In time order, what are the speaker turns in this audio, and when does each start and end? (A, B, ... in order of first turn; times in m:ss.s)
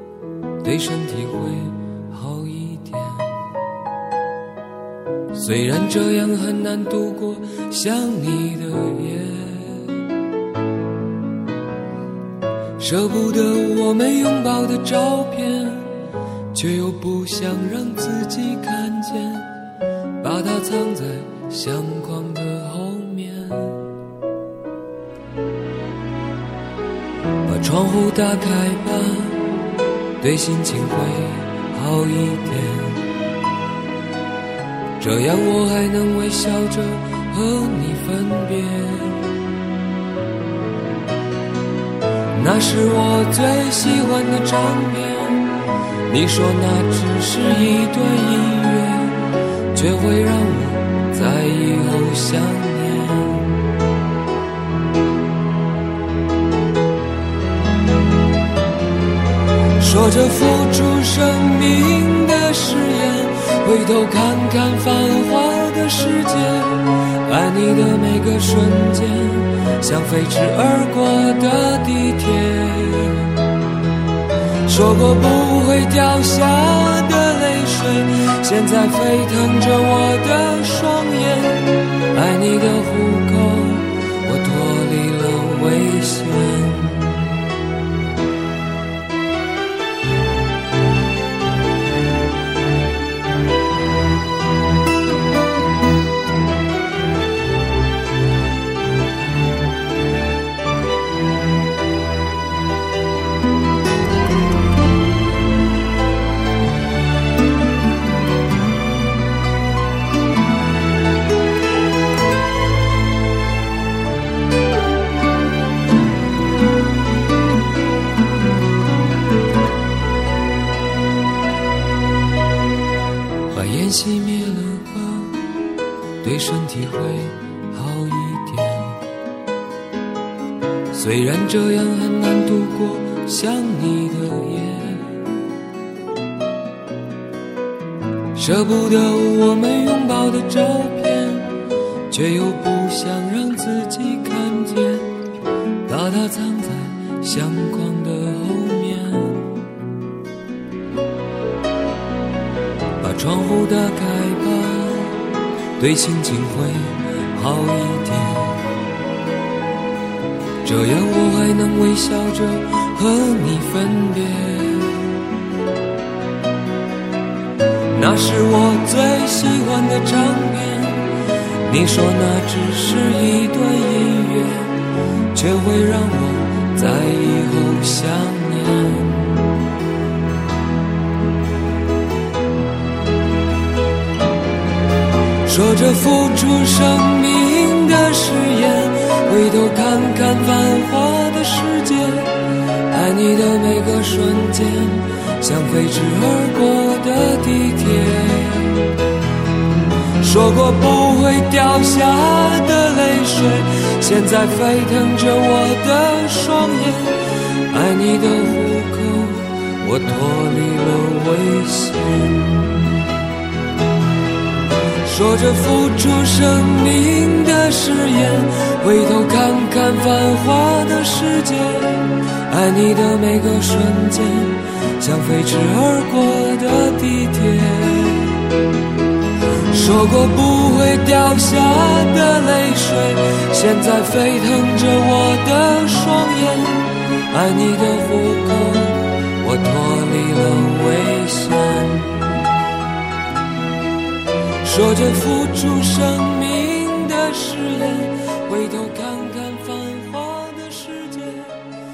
0:00.6-0:03.4 A
0:05.3-0:09.9 A
0:12.8-0:15.9 A
0:16.5-0:19.5 A
0:20.2-0:23.9 A
0:27.4-0:29.4 A
0:30.2-0:33.1 A
0:35.0-0:39.2 A
0:42.3-0:53.6 A
0:59.8-1:13.3 A
1:14.7-1:27.2 A
2:03.5-2:05.4 A
2:06.2-2:09.0 A
2:10.9-2:15.2 A
2:18.3-2:21.6 A
2:22.1-2:25.1 A
2:25.8-2:29.5 A
2:33.0-2:35.2 A
2:35.8-2:38.6 A
2:40.6-2:45.0 A
2:47.9-2:51.1 A
2:51.6-2:54.8 A
2:55.3-2:59.4 A
3:05.4-3:12.4 A
3:12.9-3:18.9 A
3:20.2-3:27.2 A
3:27.7-3:32.8 A
3:35.1-3:48.4 A
3:49.7-4:02.4 A
4:04.6-4:11.6 A